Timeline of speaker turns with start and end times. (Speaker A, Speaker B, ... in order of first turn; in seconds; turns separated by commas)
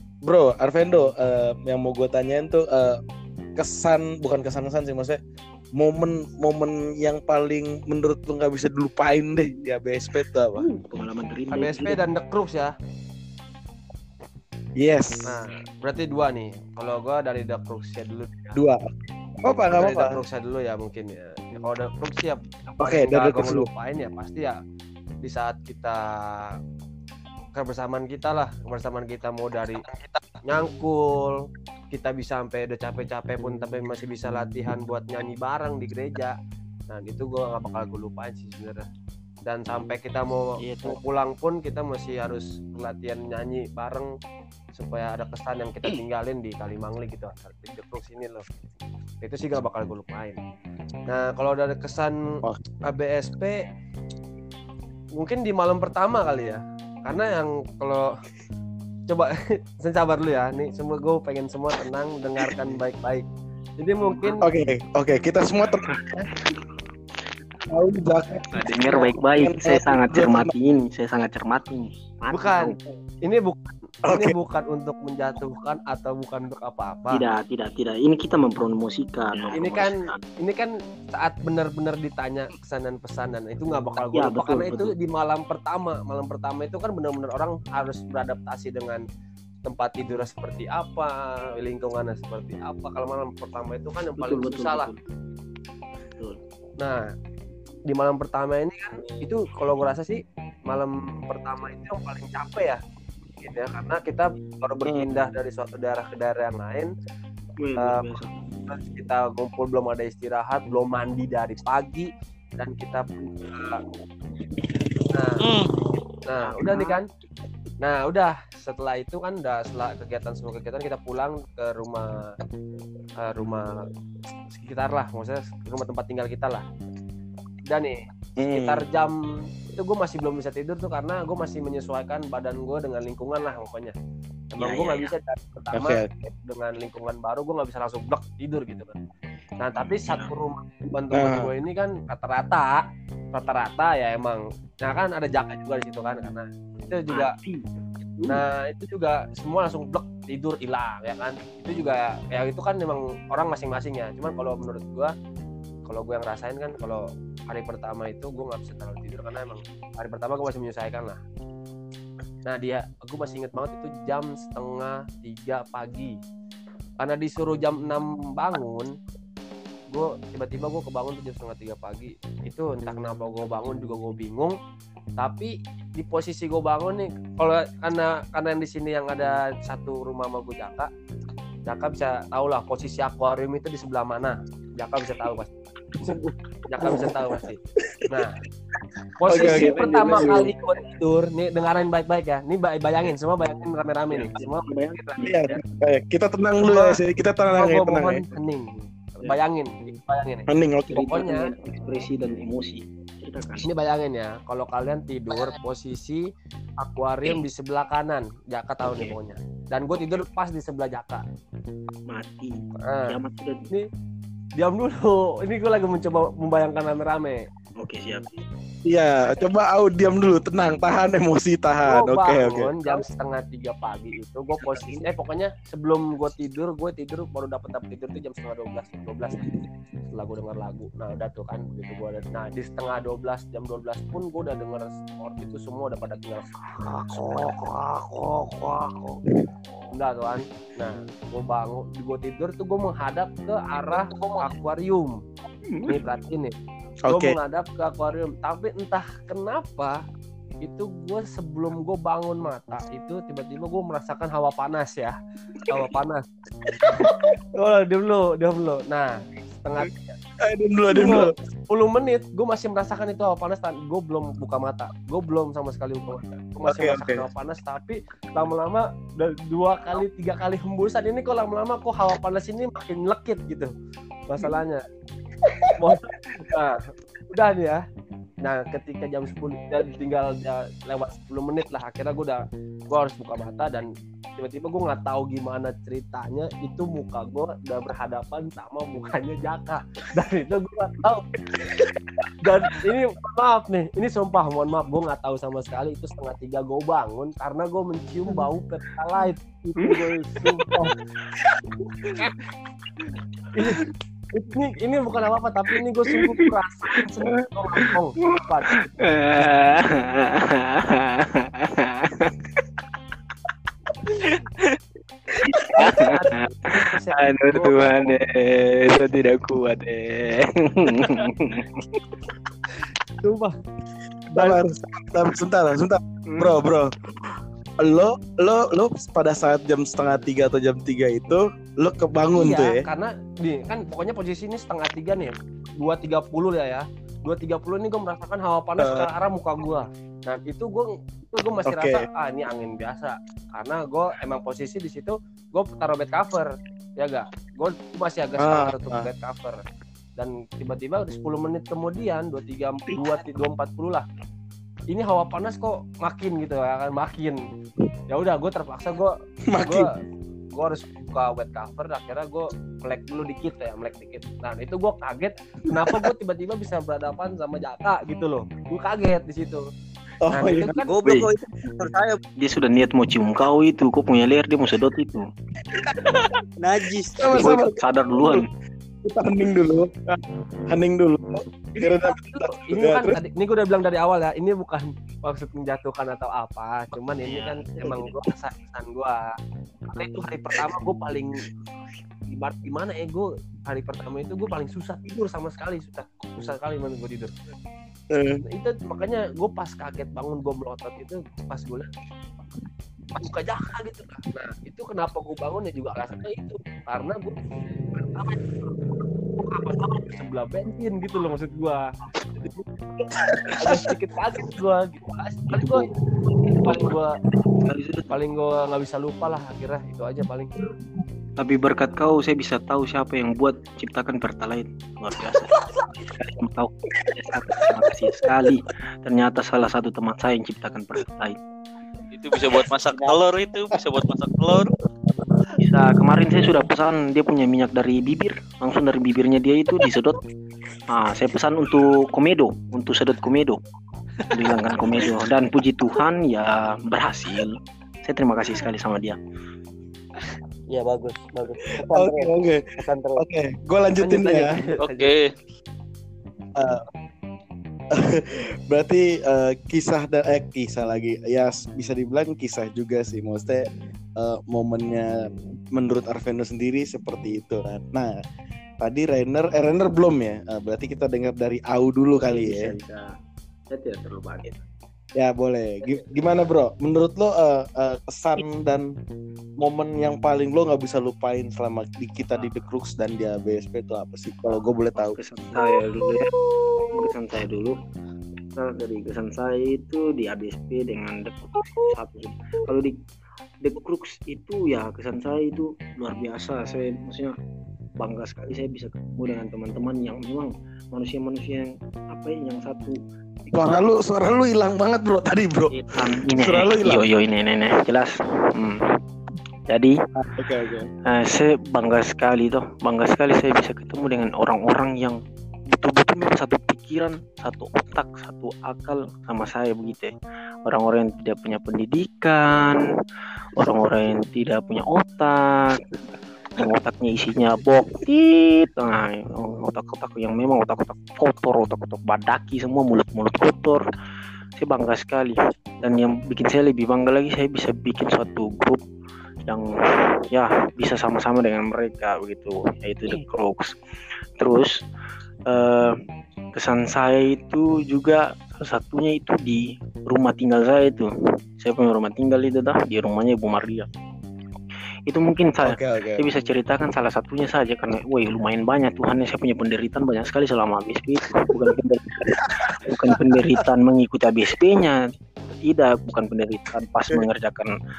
Speaker A: 0.2-3.0, Speaker A: 3.5-5.2, Speaker A: 5.8-10.7, Speaker B: 10.5-12.0, Speaker C: 11.5-12.7, Speaker A: 14.8-15.4, Speaker C: 15.2-18.6, Speaker A: 18.5-20.2, Speaker C: 19.7-24.6, Speaker A: 22.8-23.7, Speaker C: 25.2-26.5, Speaker C: 27.5-29.8, Speaker C: 30.4-36.3, Speaker C: 36.9-38.9, Speaker C: 39.5-44.1, Speaker D: 40.6-41.0, Speaker C: 44.8-48.5, Speaker C: 49.2-50.4, Speaker C: 51.1-53.6, Speaker C: 55.2-58.1, Speaker C: 59.1-63.2, Speaker C: 63.8-64.4, Speaker B: 64.1-64.4, Speaker A: 64.4-66.3, Speaker B: 65.9-66.1, Speaker A: 67.7-70.5, Speaker B: 68.5-72.9, Speaker C: 72.3-77.2, Speaker A: 74.0-74.3, Speaker B: 77.1-80.2, Speaker C: 79.5-89.0, Speaker B: 84.0-84.9, Speaker C: 89.6-94.9, Speaker B: 94.2-95.0, Speaker C: 96.8-97.1, Speaker C: 97.9-102.8, Speaker C: 103.4-106.9, Speaker B: 107.6-108.3, Speaker C: 107.8-113.8, Speaker C: 115.1-115.4, Speaker E: 115.4-115.7, Speaker C: 116.2-117.1, Speaker B: 116.4-117.0, Speaker C: 117.8-122.2, Speaker C: 123.2-123.8, Speaker C: 124.5-126.6, Speaker C: 127.7-129.2, Speaker A: 128.4-128.8, Speaker C: 129.7-133.9, Speaker C: 134.5-138.9, Speaker B: 134.6-135.1, Speaker A: 135.7-136.1, Speaker C: 139.6-142.8, Speaker A: 141.1-141.5, Speaker C: 143.3-147.3, Speaker B: 147.1-147.7, Speaker B: 148.2-148.4, Speaker C: 148.3-155.1, Speaker C: 155.8-161.2, Speaker C: 162.4-166.1, Speaker C: 167.0-168.9, Speaker C: 169.9-174.6, Speaker C: 175.2-180.9, Speaker C: 181.7-185.5, Speaker C: 186.7-188.3, Speaker C: 189.2-195.6, Speaker A: 189.3-190.5, Speaker B: 189.3-190.5, Speaker B: 194.1-195.3, Speaker A: 195.2-198.2, Speaker C: 196.6-197.0, Speaker C: 197.5-201.5, Speaker A: 200.5-201.1, Speaker B: 200.9-203.7, Speaker C: 203.6-211.2, Speaker B: 208.9-209.2, Speaker B: 212.1-213.7, Speaker C: 212.8-213.2, Speaker C: 214.6-217.4, Speaker B: 217.8-218.3, Speaker A: 218.8-222.7, Speaker C: 221.8-229.4, Speaker B: 224.6-225.0, Speaker C: 230.1-239.2, Speaker C: 239.9-245.2, Speaker B: 244.2-244.4, Speaker B: 245.7-246.0, Speaker C: 245.8-246.6, Speaker A: 247.1-247.3, Speaker C: 247.1-250.0, Speaker C: 250.6-256.2, Speaker A: 256.8-257.3, Speaker C: 257.0-260.1, Speaker A: 260.4-261.3, Speaker C: 260.9-273.7, Speaker A: 266.6-267.2, Speaker C: 274.3-274.8, Speaker A: 275.4-275.8, Speaker C: 275.7-277.8, Speaker C: 278.4-291.2, Speaker C: 292.4-300.9, Speaker B: 299.8-300.9, Speaker B: 302.0-302.3, Speaker C: 302.0-302.3, Speaker C: 303.5-308.7, Speaker B: 306.1-312.4, Speaker B: 314.2-314.8, Speaker B: 315.4-322.0, Speaker C: 315.7-317.8, Speaker C: 323.2-323.6, Speaker A: 324.3-326.9, Speaker C: 324.3-324.6, Speaker B: 326.3-326.6, Speaker A: 327.8-332.9, Speaker C: 332.3-349.6, Speaker A: 338.8-339.1, Speaker A: 341.6-342.0, Speaker A: 348.4-349.1, Speaker C: 350.2-354.0, Speaker C: 354.9-357.4, Speaker C: 358.1-359.9, Speaker A: 359.5-359.9, Speaker C: 360.5-369.6, Speaker A: 365.8-366.1, Speaker A: 370.2-370.8, Speaker C: 370.3-370.9, Speaker D: 370.8-372.2, Speaker B: 371.0-371.3, Speaker B: 372.4-375.2, Speaker A: 375.7-376.2, Speaker D: 376.6-377.5, Speaker A: 377.2-378.4, Speaker B: 377.2-378.5, Speaker A: 379.0-380.2, Speaker A: 380.7-383.2, Speaker C: 382.0-389.3, Speaker C: 389.9-391.4, Speaker C: 392.3-397.3, Speaker A: 398.1-398.4, Speaker C: 398.5-401.9, Speaker C: 403.1-407.4, Speaker C: 407.9-411.8, Speaker A: 413.2-413.9, Speaker C: 413.5-417.2, Speaker B: 415.5-415.8, Speaker B: 416.4-418.1, Speaker C: 418.1-420.5, Speaker B: 421.4-431.4, Speaker A: 427.6-428.3, Speaker E: 432.1-434.7, Speaker D: 432.9-433.2, Speaker B: 435.6-440.2, Speaker B: 440.9-443.6, Speaker B: 444.3-449.2, Speaker D: 450.7-453.2, Speaker A: 451.8-452.6, Speaker A: 453.1-454.6, Speaker C: 454.0-455.1, Speaker E: 454.9-455.3, Speaker A: 456.6-456.8, Speaker A: 457.9-468.1, Speaker A: 468.8-472.7, Speaker B: 472.1-473.0, Speaker B: 473.7-474.6, Speaker A: 475.2-478.9, Speaker A: 479.6-485.2, Speaker B: 484.9-486.3, Speaker B: 486.9-487.8, Speaker B: 488.5-492.9, Speaker B: 493.6-497.3, Speaker B: 498.0-503.0, Speaker A: 503.5-507.1, Speaker B: 505.9-508.8, Speaker B: 509.7-509.9, Speaker A: 510.2-510.9, Speaker B: 511.1-515.2, Speaker B: 515.7-520.1, Speaker B: 520.6-522.8, Speaker B: 523.5-525.8, Speaker B: 526.5-533.8, Speaker B: 534.6-538.8, Speaker B: 540.3-543.7, Speaker B: 544.4-544.7, Speaker B: 545.5-546.0, Speaker B: 546.5-551.1, Speaker B: 551.6-553.9, Speaker B: 555.1-567.7, Speaker A: 555.6-556.2, Speaker A: 562.4-563.6